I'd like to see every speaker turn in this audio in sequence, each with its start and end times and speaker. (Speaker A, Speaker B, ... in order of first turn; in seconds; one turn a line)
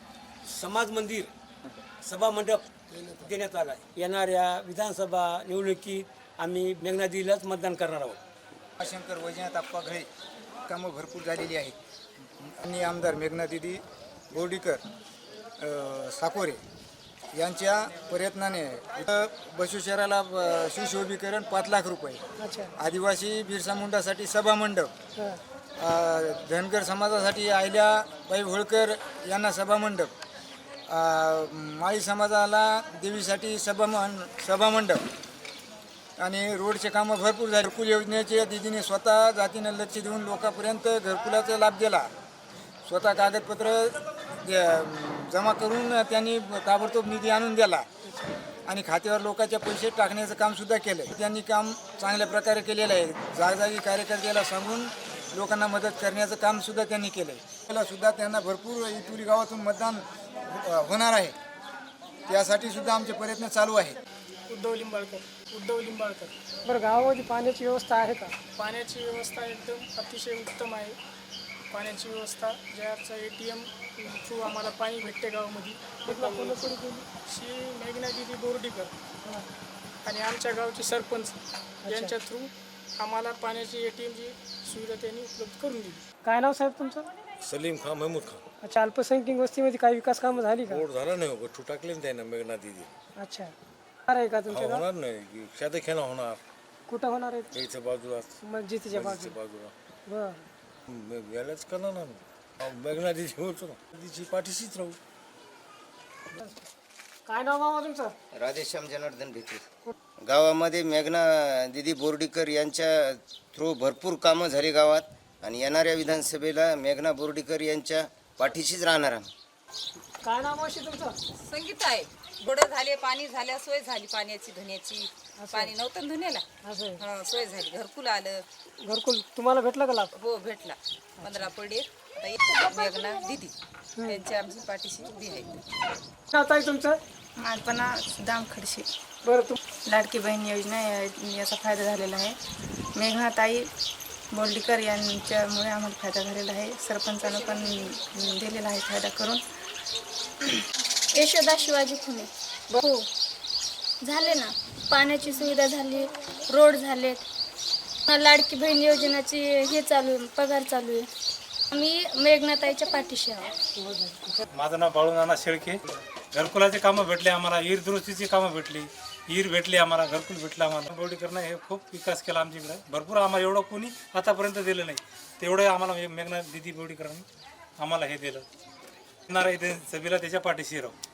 Speaker A: 0.5-1.3
Speaker A: 2.0-8.2
Speaker B: 8.8-10.1
Speaker B: 10.7-11.7
Speaker B: 12.4-14.8
Speaker B: 15.6-16.6
Speaker B: 17.4-22.2
Speaker C: 22.4-22.7
Speaker B: 22.8-24.9
Speaker B: 25.8-30.1
Speaker B: 30.9-35.0
Speaker B: 36.2-42.1
Speaker B: 42.9-47.9
Speaker B: 48.7-61.3
Speaker B: 62.3-64.0
Speaker D: 64.5-66.3
Speaker C: 66.6-68.3
Speaker D: 68.6-70.9
Speaker D: 71.7-78.9
Speaker C: 76.0-77.0
Speaker D: 80.0-81.3
Speaker C: 81.8-82.1
Speaker D: 81.9-86.0
Speaker C: 86.2-87.0
Speaker E: 87.4-88.4
Speaker C: 88.6-90.8
Speaker E: 90.6-92.9
Speaker C: 93.2-93.5
Speaker C: 94.1-94.8
Speaker E: 94.5-96.4
Speaker C: 96.9-97.5
Speaker E: 97.5-98.3
Speaker C: 98.4-99.3
Speaker E: 98.9-99.7
Speaker C: 100.1-100.5
Speaker E: 100.9-105.0
Speaker C: 106.3-106.7
Speaker C: 107.2-108.1
Speaker F: 108.3-109.6
Speaker F: 110.2-119.3
Speaker C: 120.2-121.1
Speaker G: 121.5-125.1
Speaker C: 125.4-125.7
Speaker G: 125.7-126.4
Speaker C: 126.6-127.0
Speaker G: 127.1-128.4
Speaker C: 128.8-130.1
Speaker G: 130.2-130.7
Speaker C: 131.2-131.5
Speaker G: 131.3-133.5
Speaker C: 134.0-134.2
Speaker G: 134.2-135.5
Speaker C: 136.3-137.0
Speaker H: 137.4-138.9
Speaker C: 139.2-139.6
Speaker H: 139.9-142.4
Speaker H: 142.9-143.7
Speaker H: 144.3-149.4
Speaker I: 151.1-153.1
Speaker I: 154.0-157.2
Speaker I: 158.1-161.1
Speaker I: 161.7-163.5
Speaker C: 163.8-164.4
Speaker J: 164.5-165.8
Speaker J: 166.3-177.2
Speaker J: 177.8-178.4
Speaker J: 179.3-180.9